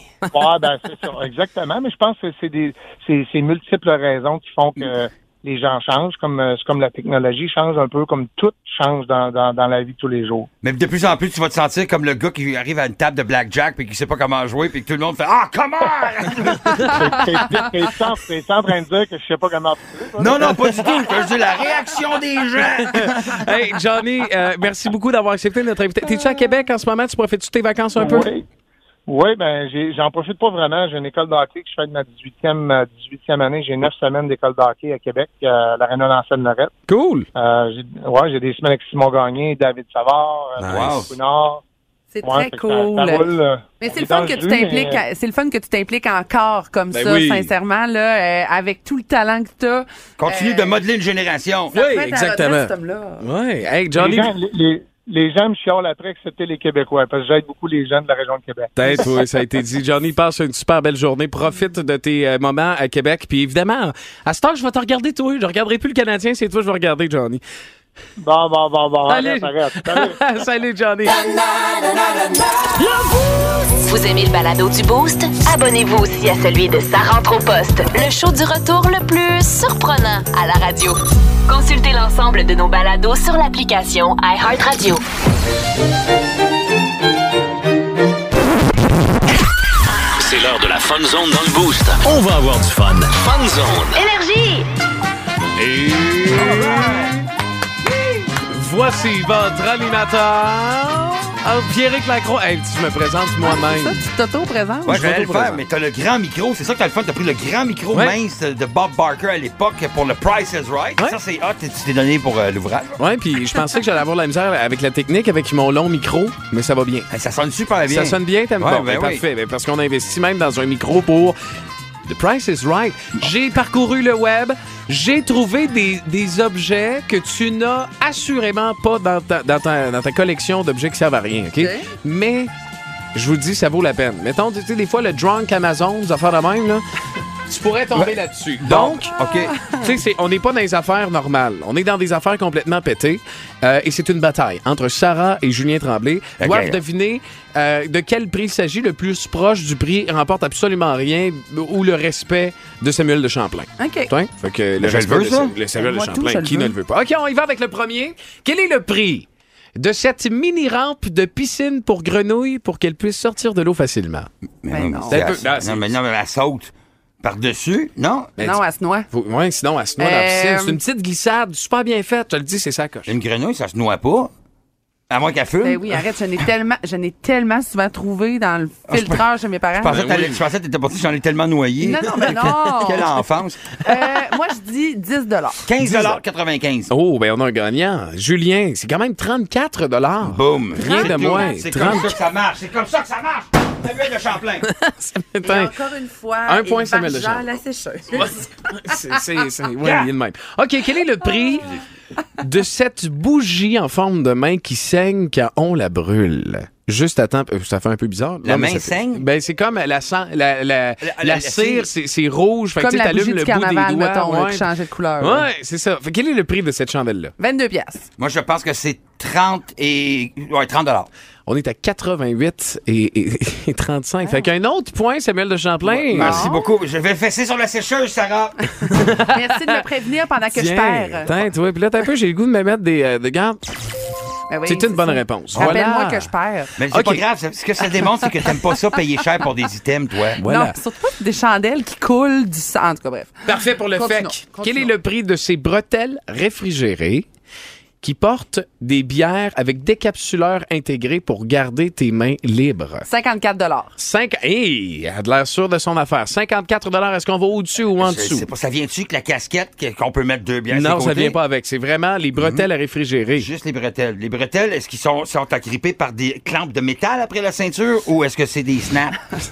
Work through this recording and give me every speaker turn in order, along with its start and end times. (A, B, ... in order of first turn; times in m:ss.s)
0:00.3-0:10.5 A
0:10.6-0:16.9 B
0:16.6-0:16.9 C
0:16.8-0:20.9 A
0:20.2-0:23.4 B
0:22.8-0:28.3 C
0:28.0-0:28.4 A
0:29.1-0:36.7 A
0:36.9-0:37.2 C
0:37.3-0:41.6 A
0:40.6-0:41.1 C
0:40.7-0:41.1 B
0:42.1-0:43.3 D
0:42.2-0:45.0 A
0:43.8-0:50.8 D
0:46.9-0:47.5 C
0:50.2-0:51.7 B
0:51.7-0:53.3 D
0:51.7-0:54.3 C
0:54.0-0:59.1 A
0:58.8-1:07.4 C
1:08.2-1:10.2 A
1:09.1-1:11.3 C
1:13.8-1:25.0 E
1:30.2-1:32.0 F
1:30.7-1:31.0 C
1:31.8-1:33.8 C
1:33.1-1:34.0 F
1:33.9-1:34.7 E
1:35.6-1:37.1 C
1:36.3-1:37.2 B
1:38.3-1:44.1 C
1:43.4-1:45.4 D
1:44.8-1:53.0 B
1:44.9-1:45.6 C
1:53.0-1:57.1 C
1:57.1-1:59.2 B
1:57.9-2:01.4 C
2:02.0-2:12.5 C
2:11.6-2:11.9 D
2:13.1-2:16.8 C
2:17.5-2:19.1 C
2:18.6-2:19.6 B
2:19.2-2:19.8 D
2:19.7-2:39.3 C
2:26.4-2:26.8 B
2:33.8-2:34.1 D
2:34.8-2:35.6 B
2:35.7-2:36.7 D
2:39.8-2:44.3 C
2:44.6-2:48.4 B
2:44.7-2:45.3 D
2:45.1-2:46.0 C
2:48.4-2:53.1 C
2:48.4-2:49.1 D
2:50.0-2:50.8 D
2:53.1-2:54.3 B
2:55.1-2:56.0 B
2:55.6-3:00.2 D
2:58.9-2:59.2 B
2:59.7-3:03.8 B
2:59.9-3:00.4 C
3:01.8-3:03.1 D
3:02.1-3:02.7 C
3:03.8-3:05.6 D
3:05.6-3:06.9 B
3:05.8-3:06.2 C
3:06.9-3:12.1 C
3:10.2-3:14.6 B
3:10.8-3:11.9 D
3:14.6-3:15.8 C
3:15.4-3:18.5 D
3:16.4-3:17.4 C
3:18.1-3:21.7 C
3:19.8-3:20.1 B
3:22.4-3:34.7 C
3:28.4-3:29.2 B
3:31.0-3:31.9 B
3:32.8-3:35.4 D
3:35.2-3:37.3 C
3:37.4-3:38.1 D
3:38.2-3:41.1 B
3:41.5-3:46.4 C
3:45.8-3:48.7 B
3:46.1-3:46.7 D
3:48.8-3:49.8 C
3:49.3-3:51.4 D
3:50.5-3:53.6 C
3:54.5-3:56.8 D
3:54.6-3:56.3 C
3:56.8-4:00.4 B
3:56.8-3:57.2 C
4:00.4-4:00.8 C
4:00.4-4:04.9 D
4:03.4-4:07.3 C
4:08.0-4:13.1 C
4:13.1-4:13.9 D
4:14.0-4:18.5 C
4:18.0-4:21.4 B
4:20.7-4:23.5 C
4:22.4-4:22.6 B
4:23.4-4:29.3 B